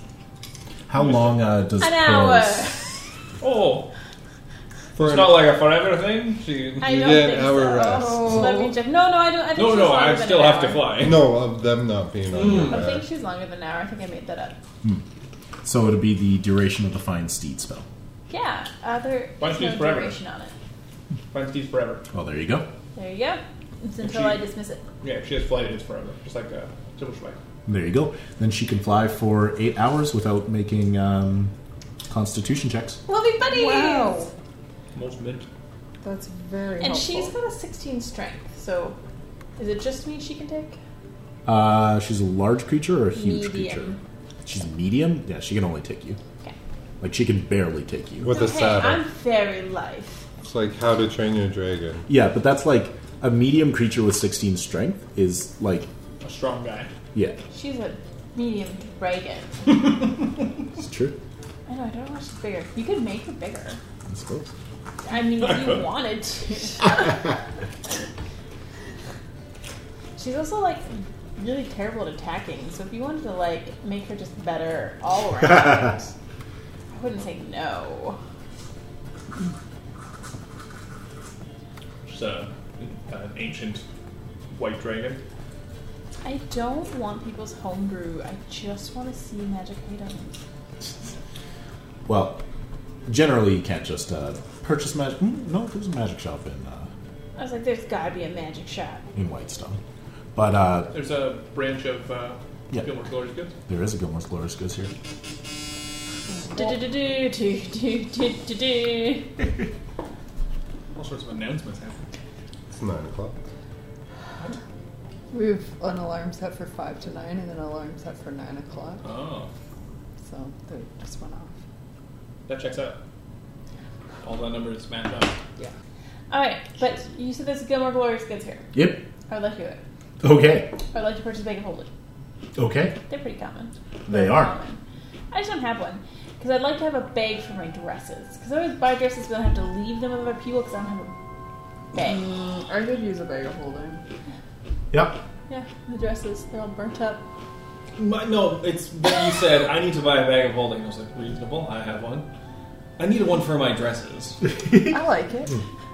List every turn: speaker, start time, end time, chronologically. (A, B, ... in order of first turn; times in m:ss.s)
0:00.9-0:02.8 A
0:01.0-0:01.4 B
0:01.8-0:02.9 C
0:03.4-0:03.9 B
0:05.0-0:05.5 D
0:05.0-0:07.0 B
0:06.8-0:10.9 C
0:06.8-0:08.3 D
0:07.9-0:08.8 E
0:09.6-0:11.3 B
0:11.0-0:13.0 D
0:12.3-0:12.9 B
0:12.4-0:14.6 C
0:15.6-0:17.9 A
0:18.3-0:20.6 C
0:19.4-0:20.2 B
0:21.3-0:22.0 B
0:22.1-0:22.7 A
0:23.0-0:24.8 C
0:24.0-0:24.4 B
0:25.0-0:27.4 B
0:27.7-0:31.5 A
0:32.1-0:33.0 A
0:33.1-0:34.3 C
0:33.4-0:34.3 E
0:35.0-0:35.5 B
0:36.0-0:37.4 E
0:36.8-0:39.0 C
0:39.6-0:40.8 C
0:41.5-0:44.0 A
0:43.1-0:44.0 C
0:44.5-0:46.2 A
0:47.0-0:48.3 A
0:48.2-0:49.0 D
0:48.3-0:50.3 C
0:50.4-0:52.1 D
0:52.1-0:55.9 A
0:56.2-0:56.9 B
0:57.5-0:59.8 C
1:00.8-1:01.2 A
1:01.7-1:03.8 C
1:04.1-1:04.5 A
1:05.0-1:07.2 C
1:05.4-1:05.8 B
1:10.2-1:16.1 C
1:16.9-1:18.2 C
1:22.1-1:23.8 B
1:24.5-1:25.2 B
1:26.2-1:30.4 C
1:32.1-1:32.4 A
1:33.1-1:36.9 A
1:37.4-1:39.0 C
1:39.1-1:39.8 A
1:40.4-1:40.9 A
1:40.9-1:43.5 B
1:43.7-1:44.9 A
1:46.4-1:46.7 E
1:46.5-1:49.3 C
1:51.0-1:52.1 B
1:52.8-1:53.4 D
1:55.3-1:59.0 E
1:59.0-1:59.5 B
2:00.2-2:01.6 E
2:02.5-2:03.0 B
2:04.2-2:05.4 B
2:06.3-2:08.7 C
2:08.7-2:09.0 A
2:09.3-2:09.8 C
2:10.2-2:10.7 A
2:10.9-2:11.9 C
2:12.6-2:13.0 A
2:13.1-2:14.8 C
2:14.1-2:14.5 A
2:15.3-2:21.1 C
2:21.9-2:22.2 C
2:21.9-2:24.0 E
2:24.9-2:25.2 A
2:25.5-2:27.2 C
2:28.0-2:32.3 B
2:33.0-2:34.4 B
2:34.6-2:34.9 A
2:34.8-2:35.6 E